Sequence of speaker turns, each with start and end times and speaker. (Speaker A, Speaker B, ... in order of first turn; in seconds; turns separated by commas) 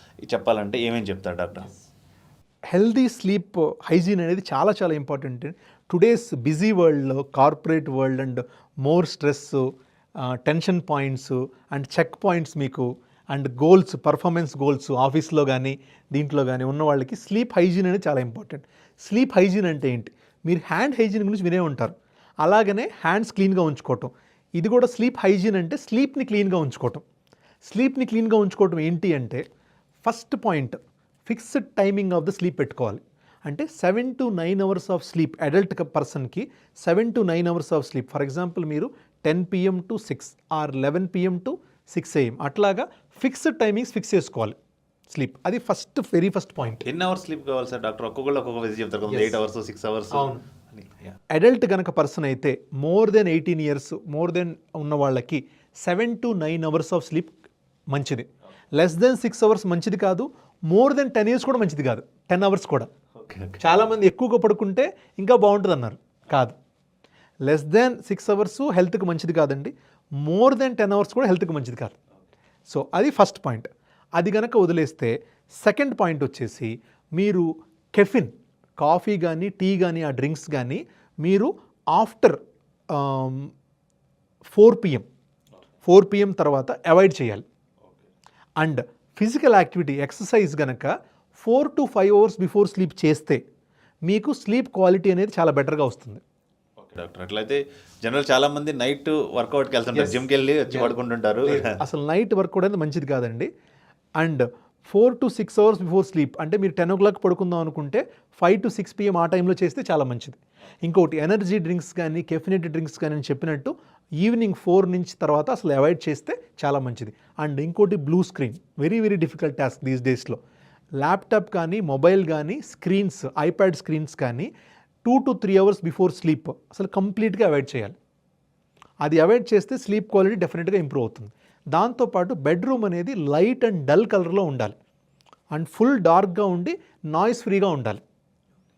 Speaker A: 0.3-1.7, Speaker B: 2.7-9.6, Speaker B: 10.2-27.0, Speaker B: 27.6-29.4, Speaker B: 30.0-44.6, Speaker B: 45.1-46.8, Speaker A: 46.9-51.1, Speaker B: 49.1-49.4, Speaker B: 50.1-50.4, Speaker B: 51.3-57.4, Speaker B: 57.9-62.9, Speaker A: 63.2-63.6, Speaker B: 63.6-66.6, Speaker B: 67.5-72.0, Speaker B: 72.7-82.4, Speaker B: 82.9-83.5, Speaker B: 84.5-85.1, Speaker B: 85.8-87.4, Speaker B: 88.6-93.4, Speaker B: 94.1-96.2, Speaker A: 96.8-101.8, Speaker B: 99.9-100.9, Speaker B: 101.5-103.5, Speaker B: 104.2-120.4, Speaker B: 121.0-124.5, Speaker B: 125.0-128.0, Speaker B: 129.0-134.8, Speaker B: 135.5-138.0